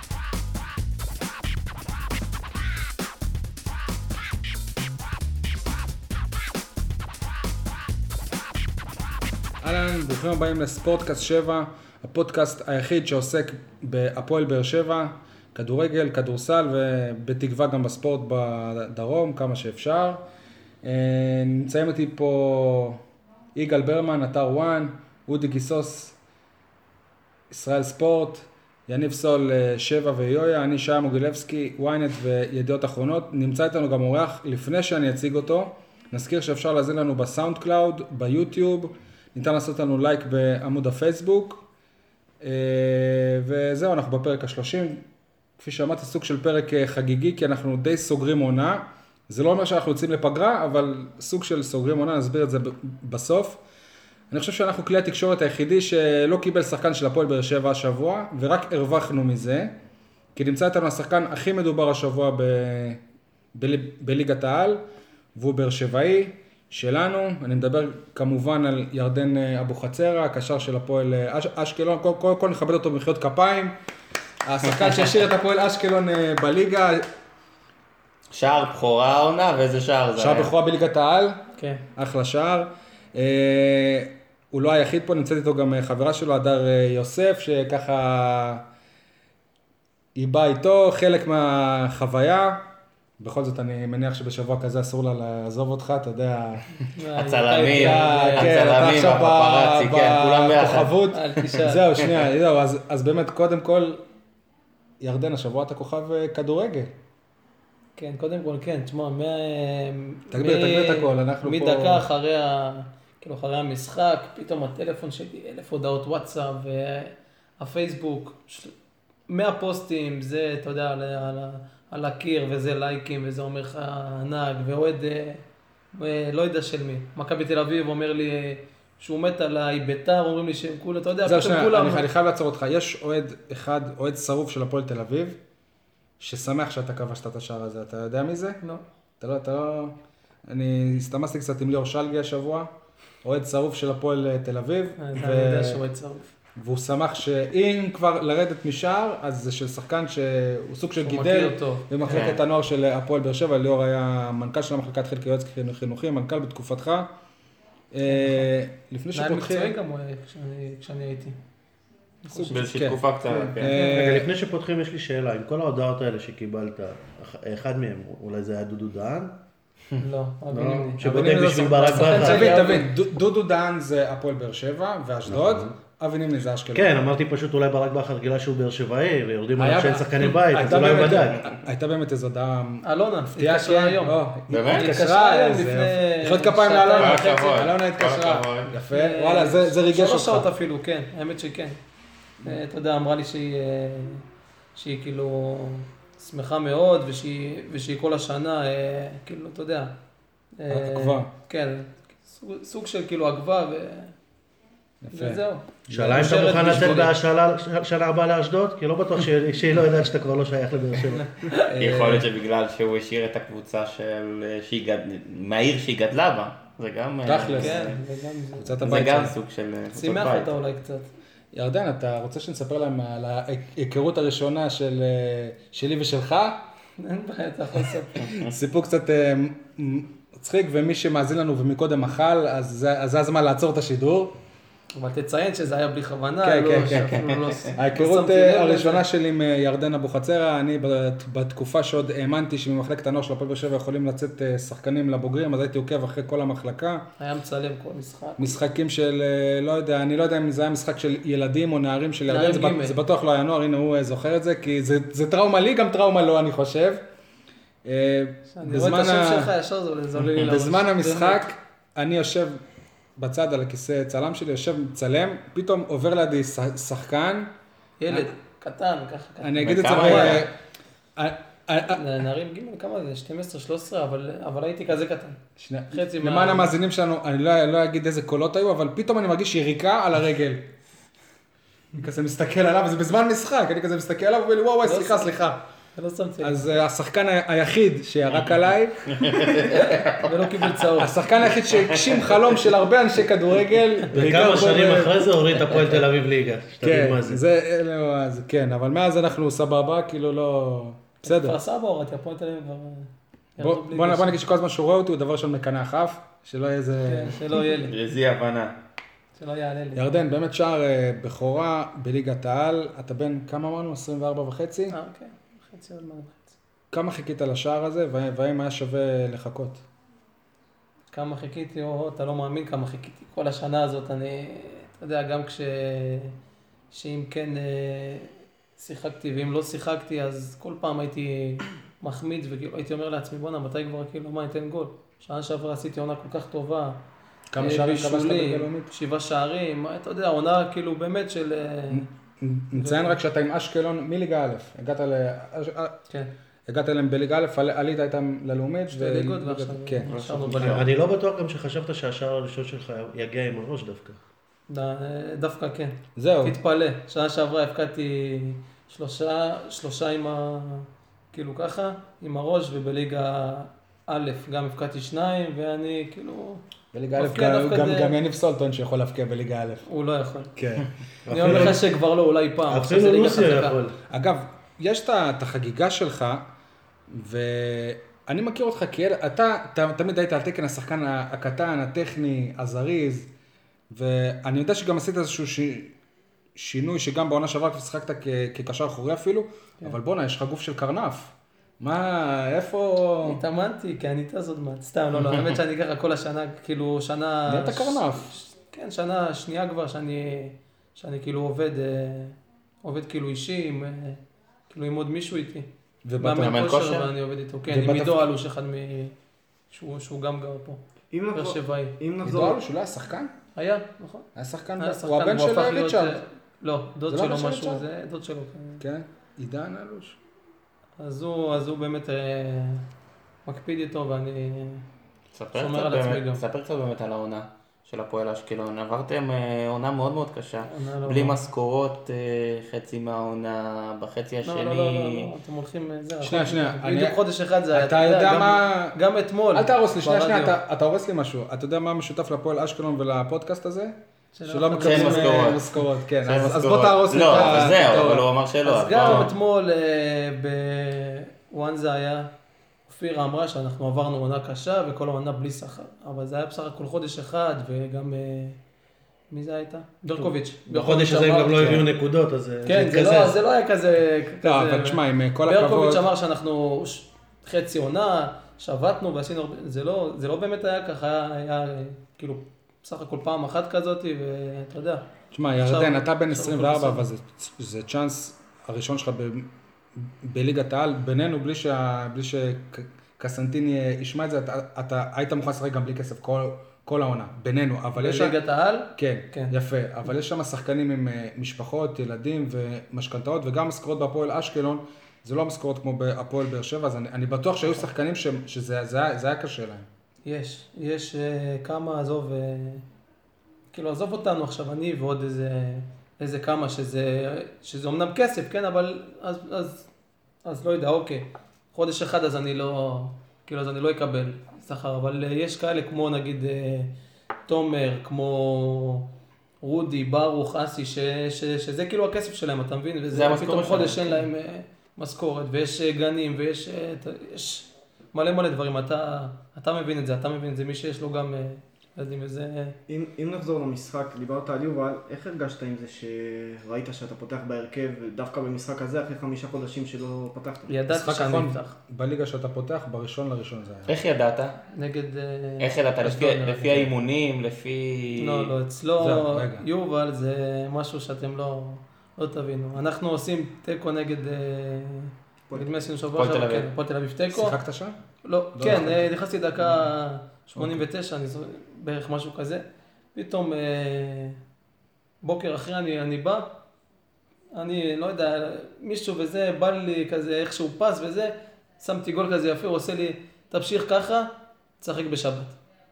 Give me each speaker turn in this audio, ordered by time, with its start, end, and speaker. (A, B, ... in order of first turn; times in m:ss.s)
0:09.6-0:20.2 A
0:20.8-0:23.0 A
0:23.5-0:26.2 A
0:27.5-0:41.6 A
0:42.4-0:45.0 A
0:45.6-0:53.6 A
0:54.3-0:59.7 A
1:00.3-1:03.0 A
1:03.5-1:04.8 A
1:05.3-1:13.8 A
1:14.4-1:17.1 A
1:18.3-1:20.5 B
1:20.2-1:21.4 A
1:21.6-1:21.8 C
1:22.0-1:28.6 A
1:30.1-1:32.6 A
1:33.2-1:36.9 A
1:36.9-1:38.5 C
1:37.2-1:41.0 B
1:37.7-1:44.0 A
1:41.1-1:41.8 C
1:45.0-1:46.9 A
1:48.0-1:58.7 C
1:50.3-1:52.0 A
1:59.3-2:05.4 C
2:05.9-2:12.1 C
2:11.2-2:15.4 A
2:16.2-2:18.6 A
2:19.2-2:20.0 A
2:20.5-2:22.7 A
2:23.2-2:25.8 A
2:25.0-2:26.3 C
2:26.6-2:37.1 A
2:31.0-2:32.3 C
2:32.1-2:32.4 B
2:37.9-2:39.8 A
2:38.1-2:38.4 C
2:39.1-2:41.4 C
2:42.2-2:42.7 C
2:42.3-2:44.3 A
2:42.5-2:43.8 B
2:43.6-2:49.3 D
2:50.0-2:51.0 C
2:50.5-2:52.7 D
2:51.0-2:56.9 A
2:51.8-2:52.9 C
2:55.3-2:55.7 D
2:56.7-3:01.4 D
2:59.6-3:10.5 A
3:02.8-3:07.6 C
3:04.5-3:04.9 B
3:06.9-3:08.7 B
3:08.7-3:11.8 C
3:12.4-3:19.9 C
3:20.6-3:24.1 C
3:20.7-3:21.3 A
3:25.0-3:26.8 A
3:25.1-3:27.1 C
3:25.9-3:31.3 D
3:31.1-3:31.7 C
3:31.7-3:32.3 A
3:31.7-3:38.0 B
3:37.2-3:37.8 A
3:37.6-3:38.8 C
3:38.6-3:39.3 A
3:38.8-3:40.5 B
3:39.9-3:41.1 C
3:41.5-3:46.6 A
3:47.0-3:48.4 C
3:48.2-3:54.3 A
3:54.9-3:59.0 C
3:56.4-4:07.0 A
4:07.2-4:08.6 C
4:08.4-4:17.0 A
4:12.3-4:13.0 C
4:17.8-4:19.5 A
4:18.5-4:21.4 C
4:20.2-4:22.6 A
4:23.2-4:27.5 A
4:28.0-4:30.4 C
4:29.4-4:30.5 A
4:29.6-4:30.5 B
4:31.2-4:32.0 A
4:31.9-4:35.4 C
4:35.6-4:40.7 A
4:35.9-4:36.7 C
4:42.0-4:45.6 A
4:44.8-4:45.3 C
4:46.0-4:46.6 C
4:46.4-4:49.8 A
4:49.1-4:50.3 B
4:49.6-4:51.3 C
4:51.0-4:55.3 A
4:51.9-4:52.3 B
4:54.1-4:57.4 D
4:56.8-5:01.6 A
5:01.2-5:04.4 C
5:03.6-5:07.5 A
5:07.0-5:07.9 C
5:07.8-5:08.7 B
5:09.4-5:10.1 C
5:09.9-5:14.9 A
5:14.9-5:16.6 C
5:16.9-5:19.8 A
5:21.1-5:26.3 C
5:26.9-5:37.0 C
5:37.5-5:38.9 A
5:37.6-5:42.1 C
5:41.9-5:45.9 A
5:42.7-5:43.1 C
5:46.7-5:50.1 A
5:48.9-5:50.9 C
5:50.1-5:54.2 D
5:54.7-6:06.6 C
5:56.2-5:56.6 A
6:06.9-6:09.8 A
6:07.1-6:08.1 C
6:09.8-6:10.5 C
6:10.6-6:10.9 A
6:11.3-6:11.9 D
6:11.3-6:13.8 C
6:11.4-6:11.7 A
6:12.7-6:14.0 D
6:14.1-6:16.4 A
6:17.1-6:23.3 A
6:23.9-6:25.9 A
6:26.6-6:33.4 A
6:33.2-6:45.7 C
6:37.5-6:38.3 A
6:46.0-6:46.6 A
6:46.2-6:49.1 C
6:46.4-6:47.1 B
6:47.7-6:48.3 A
6:49.7-6:50.8 C
6:51.1-6:52.6 E
6:51.3-6:52.0 C
6:52.2-6:53.3 A
6:53.5-6:58.8 C
6:54.3-6:56.2 A
6:57.1-6:57.8 A
6:58.8-7:00.2 A
7:01.0-7:02.8 C
7:03.4-7:04.8 C
7:05.3-7:15.3 B
7:05.5-7:06.4 C
7:10.6-7:11.4 C
7:14.4-7:20.6 C
7:16.2-7:17.2 A
7:17.7-7:19.0 A
7:19.5-7:24.0 A
7:24.3-7:25.6 C
7:24.5-7:28.3 A
7:24.8-7:25.7 B
7:26.2-7:29.3 B
7:28.6-7:32.3 C
7:32.9-7:38.6 C
7:39.3-7:41.8 C
7:40.2-7:43.4 D
7:41.5-7:41.8 A
7:42.6-7:55.0 C
7:44.4-7:46.1 A
7:55.3-8:08.4 A
7:55.6-7:57.0 C
8:08.0-8:09.5 C
8:09.0-8:19.9 A
8:20.2-8:22.8 C
8:23.7-8:29.9 C
8:30.4-8:36.9 C
8:37.5-8:39.0 C
8:39.6-8:52.8 C
8:43.1-8:44.2 B
8:52.9-9:00.7 E
9:00.7-9:01.8 C
9:00.9-9:04.0 A
9:03.9-9:04.6 B
9:04.7-9:06.9 C
9:05.6-9:08.5 B
9:08.2-9:17.6 C
9:09.0-9:09.6 A
9:16.1-9:16.7 B
9:17.3-9:18.0 A
9:18.2-9:22.6 C
9:18.5-9:19.8 A
9:20.6-9:20.8 A
9:23.1-9:24.4 C
9:25.2-9:26.5 C
9:27.5-9:34.3 C
9:34.8-9:35.6 C